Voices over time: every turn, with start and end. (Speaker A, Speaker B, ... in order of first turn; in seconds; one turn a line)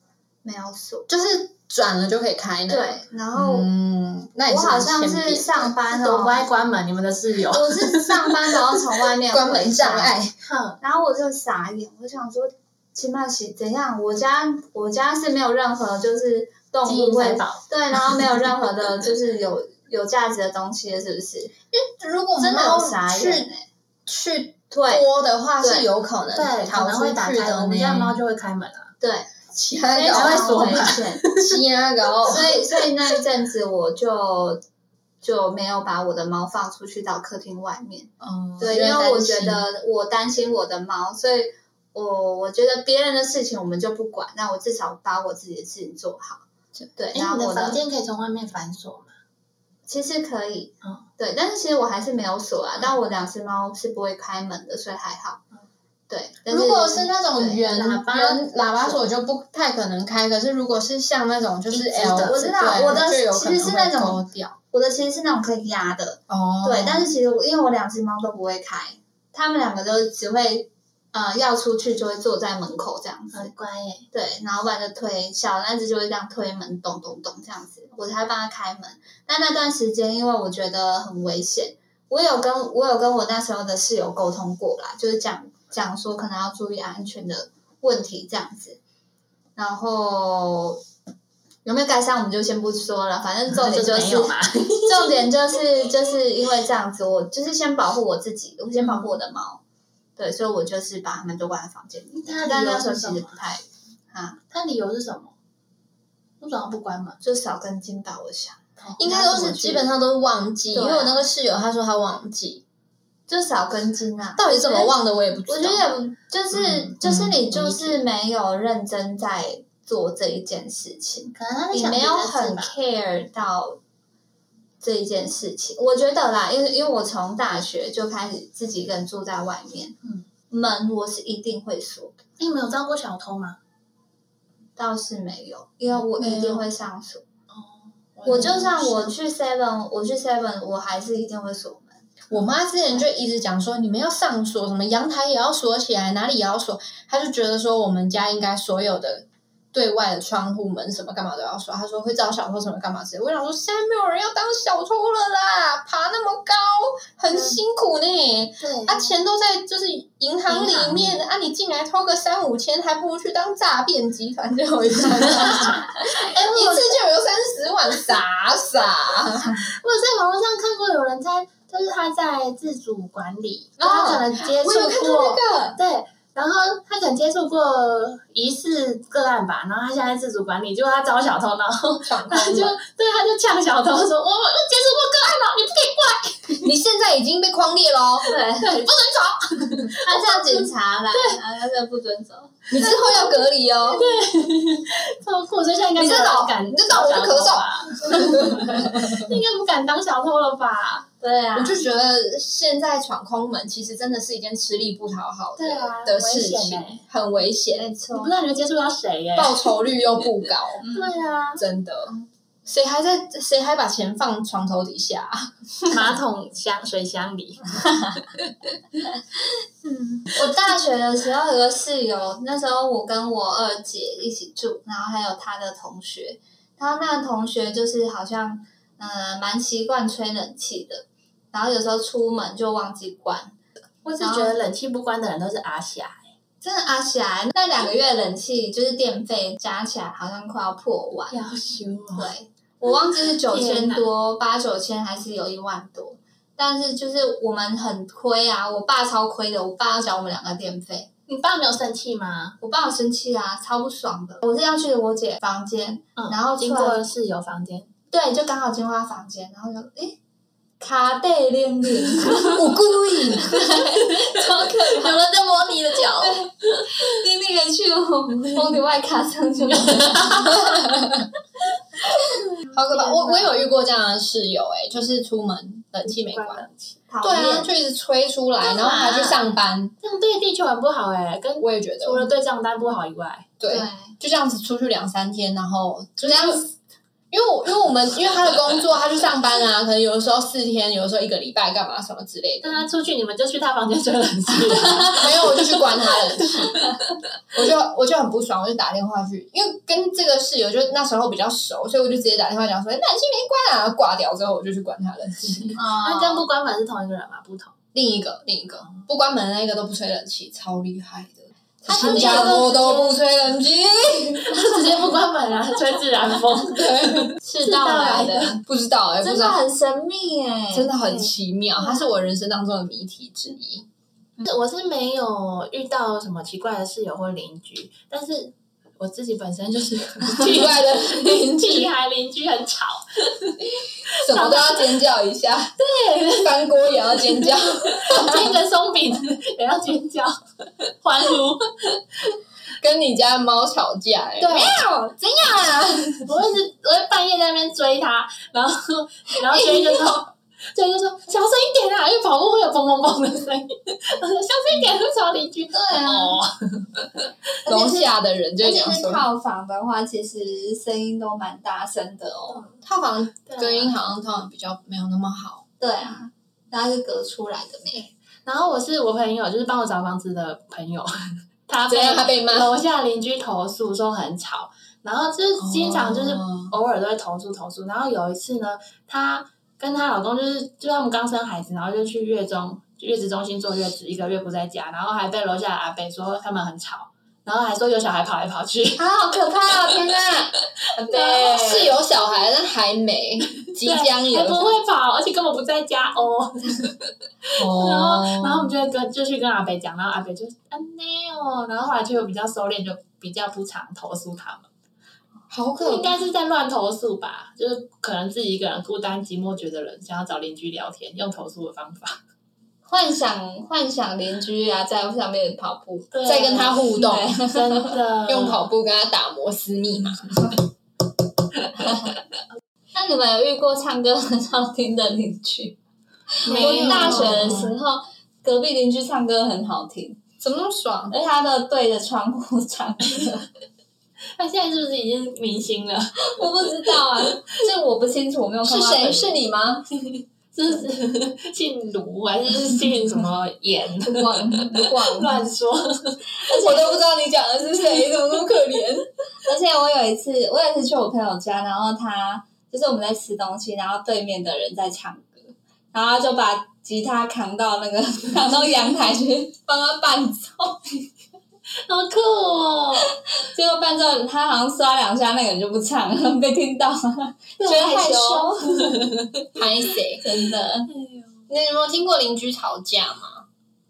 Speaker A: 0.4-1.1
Speaker B: 1.1-5.7
Speaker A: 2.7-3.7
Speaker A: 4.5-6.4
Speaker C: 5.9-8.4
Speaker A: 7.5-10.2
Speaker B: 9.3-10.3
Speaker C: 10.4-10.8
Speaker A: 10.8-21.5
Speaker C: 16.8-17.6
Speaker B: 21.7-23.5
Speaker A: 22.4-23.6
Speaker B: 24.1-28.2
Speaker A: 24.7-25.0
Speaker A: 25.6-25.9
Speaker C: 26.3-28.9
Speaker A: 29.0-29.3
Speaker B: 29.5-32.6
Speaker A: 29.9-31.3
Speaker C: 30.1-31.5
Speaker A: 32.3-34.6
Speaker A: 35.2-46.4
Speaker B: 38.2-39.6
Speaker A: 47.0-47.8
Speaker C: 47.1-49.1
Speaker A: 49.9-55.4
Speaker A: 56.1-57.7
Speaker B: 56.5-64.5
Speaker C: 57.6-59.0
Speaker C: 61.7-62.9
Speaker A: 62.0-64.2
Speaker A: 64.7-73.5
Speaker B: 66.3-67.1
Speaker C: 73.3-74.1
Speaker A: 74.1-88.8
Speaker A: 89.5-90.8
Speaker A: 91.6-99.6
Speaker C: 93.5-95.3
Speaker C: 98.8-99.1
Speaker A: 100.2-104.4
Speaker C: 102.2-103.4
Speaker C: 104.5-105.3
Speaker C: 106.4-107.2
Speaker A: 107.2-109.9
Speaker B: 109.0-112.6
Speaker A: 110.7-111.2
Speaker A: 113.3-114.9
Speaker B: 114.4-115.9
Speaker A: 115.5-123.8
Speaker B: 116.5-118.0
Speaker C: 121.3-122.7
Speaker A: 124.8-129.9
Speaker A: 130.5-132.2
Speaker C: 132.4-133.6
Speaker A: 134.8-137.2
Speaker B: 136.2-136.7
Speaker C: 137.5-139.1
Speaker A: 138.2-142.0
Speaker B: 142.3-169.6
Speaker C: 157.3-157.6
Speaker C: 158.6-159.1
Speaker C: 160.5-161.2
Speaker C: 166.2-167.0
Speaker C: 169.6-186.7
Speaker A: 173.8-174.2
Speaker B: 173.9-175.7
Speaker B: 182.1-182.8
Speaker B: 186.6-188.3
Speaker A: 188.3-188.9
Speaker C: 188.6-191.4
Speaker A: 190.0-193.9
Speaker B: 192.7-194.0
Speaker C: 193.9-201.1
Speaker B: 196.0-199.3
Speaker A: 201.2-201.8
Speaker B: 201.5-207.9
Speaker C: 205.6-207.0
Speaker A: 207.7-208.3
Speaker C: 208.1-209.7
Speaker B: 209.3-210.9
Speaker C: 210.9-211.6
Speaker B: 211.6-215.5
Speaker C: 215.9-217.8
Speaker A: 219.9-233.5
Speaker C: 234.0-236.3
Speaker A: 234.2-234.6
Speaker A: 236.6-241.4
Speaker C: 241.3-242.3
Speaker A: 242.1-251.1
Speaker C: 243.5-244.1
Speaker C: 251.3-252.6
Speaker A: 252.6-257.0
Speaker C: 256.1-257.9
Speaker A: 258.1-260.2
Speaker A: 260.8-262.8
Speaker B: 262.4-263.5
Speaker A: 263.3-265.2
Speaker C: 264.2-267.0
Speaker A: 266.2-271.3
Speaker C: 269.7-270.5
Speaker B: 272.7-276.6
Speaker C: 272.9-273.5
Speaker C: 276.0-277.0
Speaker A: 277.1-277.7
Speaker B: 277.2-279.9
Speaker C: 278.6-279.4
Speaker A: 278.9-279.2
Speaker C: 280.0-283.5
Speaker B: 281.6-282.3
Speaker B: 283.6-286.7
Speaker A: 283.7-284.1
Speaker C: 286.2-286.6
Speaker B: 287.3-292.9
Speaker C: 292.6-297.0
Speaker B: 295.1-296.8
Speaker B: 297.5-305.8
Speaker C: 305.7-307.7
Speaker A: 305.8-306.4
Speaker B: 307.9-314.7
Speaker A: 311.8-313.2
Speaker C: 311.9-312.9
Speaker C: 314.5-318.6
Speaker B: 316.6-317.4
Speaker A: 317.5-318.6
Speaker B: 318.6-319.6
Speaker A: 319.2-321.3
Speaker B: 320.7-323.9
Speaker C: 324.4-334.8
Speaker B: 330.3-331.9
Speaker B: 334.1-335.7
Speaker C: 335.8-341.7
Speaker B: 336.4-338.5
Speaker B: 342.8-344.8
Speaker A: 344.4-345.8
Speaker B: 345.4-345.7
Speaker C: 346.2-357.3
Speaker A: 355.7-356.4
Speaker B: 357.6-359.2
Speaker A: 357.6-362.7
Speaker B: 362.8-365.6
Speaker C: 363.5-363.9
Speaker A: 365.8-368.1
Speaker C: 368.4-371.1
Speaker C: 371.7-389.1
Speaker B: 371.9-372.7
Speaker B: 375.6-376.7
Speaker A: 389.0-390.5
Speaker B: 389.9-390.3
Speaker C: 391.0-392.0
Speaker B: 391.1-394.8
Speaker A: 391.4-391.7
Speaker C: 393.8-397.0
Speaker C: 397.5-404.7
Speaker B: 397.6-398.7
Speaker B: 405.5-406.2
Speaker C: 405.8-412.2
Speaker A: 412.9-416.1
Speaker C: 416.1-418.6
Speaker B: 416.2-417.4
Speaker A: 416.9-417.9
Speaker B: 418.2-420.6
Speaker A: 422.9-425.8
Speaker A: 426.4-430.2
Speaker C: 426.4-427.7
Speaker B: 426.5-427.7
Speaker B: 430.4-431.1
Speaker A: 431.1-433.4
Speaker C: 434.4-436.2
Speaker A: 436.2-439.4
Speaker B: 438.6-439.9
Speaker C: 440.5-446.2
Speaker A: 444.0-445.4
Speaker A: 446.4-447.0
Speaker B: 446.5-449.0
Speaker A: 447.8-448.9
Speaker A: 449.4-460.8
Speaker C: 461.9-463.1
Speaker A: 463.3-469.1
Speaker C: 467.6-469.3
Speaker B: 469.5-470.2
Speaker A: 470.2-470.9
Speaker C: 470.9-471.3
Speaker B: 471.5-473.4